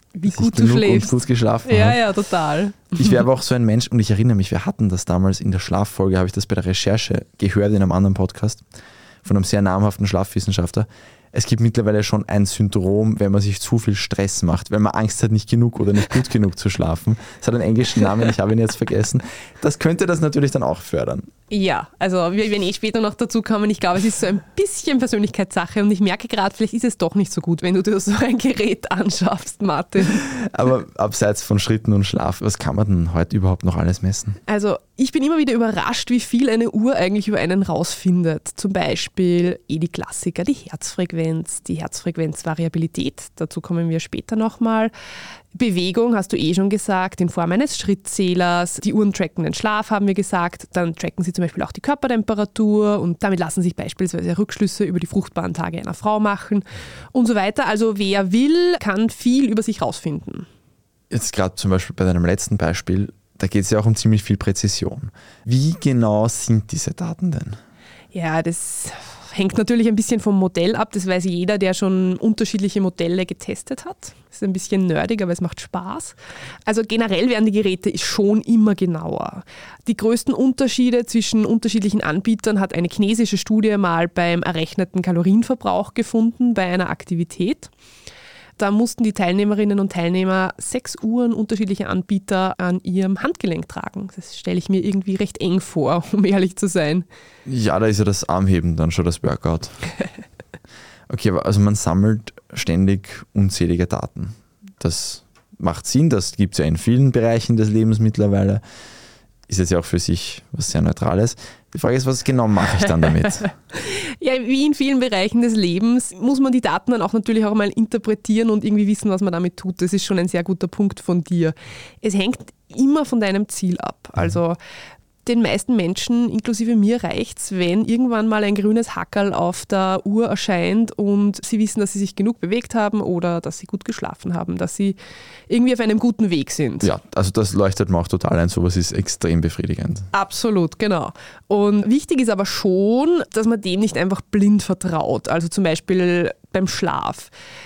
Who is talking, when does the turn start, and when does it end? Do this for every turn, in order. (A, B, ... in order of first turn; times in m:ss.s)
0:00.2-0:03.2 A
0:00.3-0:02.0 B
0:03.0-0:08.6 B
0:09.2-0:21.3 B
0:21.5-0:30.2 A
0:30.1-0:34.4 B
0:34.5-0:44.9 A
0:45.5-1:00.5 A
1:01.1-1:07.6 B
1:08.1-1:16.2 A
1:16.7-1:27.7 A
1:28.6-1:37.1 A
1:37.5-1:39.8 B
1:41.1-1:48.6 B
1:49.5-1:53.5 B
1:53.7-2:04.6 A
2:05.2-2:15.0 A
2:15.5-2:16.9 A
2:16.8-2:20.1 B
2:20.1-2:27.3 A